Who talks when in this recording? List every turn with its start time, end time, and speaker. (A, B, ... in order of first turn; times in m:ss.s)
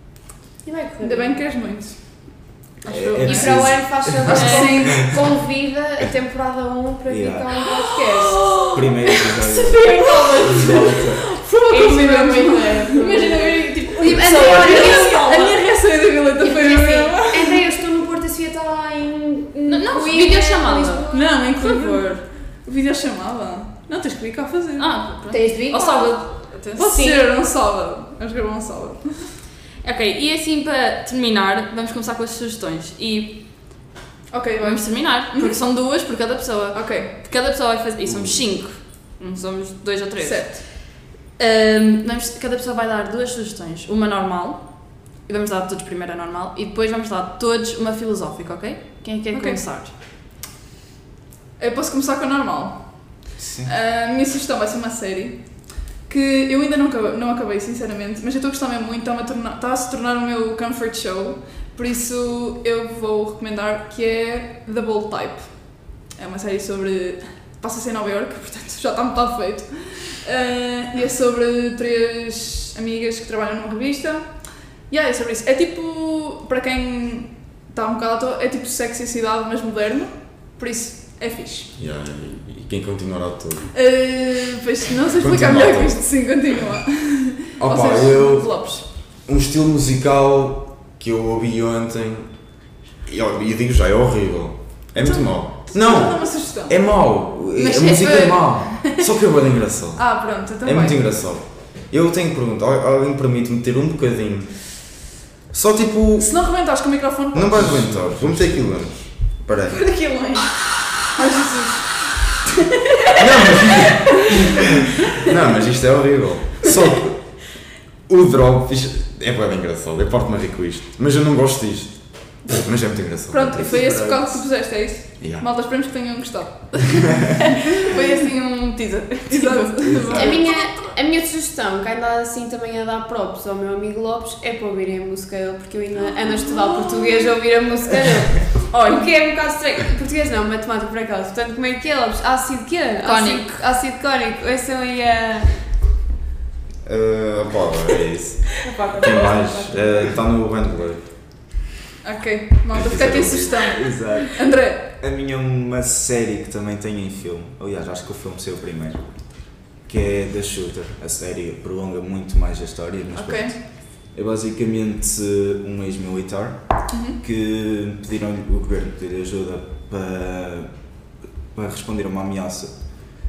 0:00.6-0:01.4 A
0:01.0-0:03.7 B
0:02.9-0:05.2 C
0:03.2-0:08.7 A
0:04.3-0:05.0 B
0:04.3-0:04.8 D
0:07.1-0:07.5 C
0:08.3-0:08.8 D
0:08.5-0:11.3 C
0:09.3-0:10.9 D
0:10.4-0:17.7 B
0:11.7-0:15.7 A
0:13.0-0:15.4 D
0:16.4-0:21.3 A
0:19.7-0:22.2 D
0:21.1-0:25.0 B
0:24.8-0:26.9 D
0:25.3-0:27.2 A
0:26.8-0:29.4 B
0:29.8-0:33.8 D
0:34.3-0:35.6 B
0:34.6-0:49.9 D
0:36.7-0:37.1 B
0:38.1-0:38.4 C
0:40.2-0:40.7 B
0:49.3-0:49.6 B
0:51.6-1:21.7 B
0:53.4-0:53.7 C
1:21.7-1:23.7 E
1:23.7-1:28.8 B
1:25.2-1:26.0 E
1:27.6-1:32.3 E
1:33.0-1:46.3 E
1:35.0-1:36.8 B
1:37.6-1:38.9 D
1:37.8-1:38.5 C
1:40.0-1:41.0 B
1:46.2-1:47.8 B
1:47.3-1:50.0 E
1:47.6-1:48.5 C
1:49.7-1:52.2 B
1:53.2-1:54.4 E
1:55.2-2:04.0 E
2:03.3-2:07.2 B
2:03.6-2:04.2 C
2:05.2-2:05.5 E
2:07.8-2:10.9 D
2:09.3-2:10.4 B
2:09.9-2:10.2 C
2:10.1-2:25.7 A
2:18.7-2:19.1 D
2:23.0-2:23.6 D
2:26.8-2:31.0 E
2:28.6-2:30.0 A
2:32.0-2:34.9 B
2:32.7-2:33.6 E
2:33.7-2:39.1 C
2:39.8-2:50.7 C
2:43.1-2:43.6 B
2:46.9-2:47.2 B
2:51.5-2:52.8 C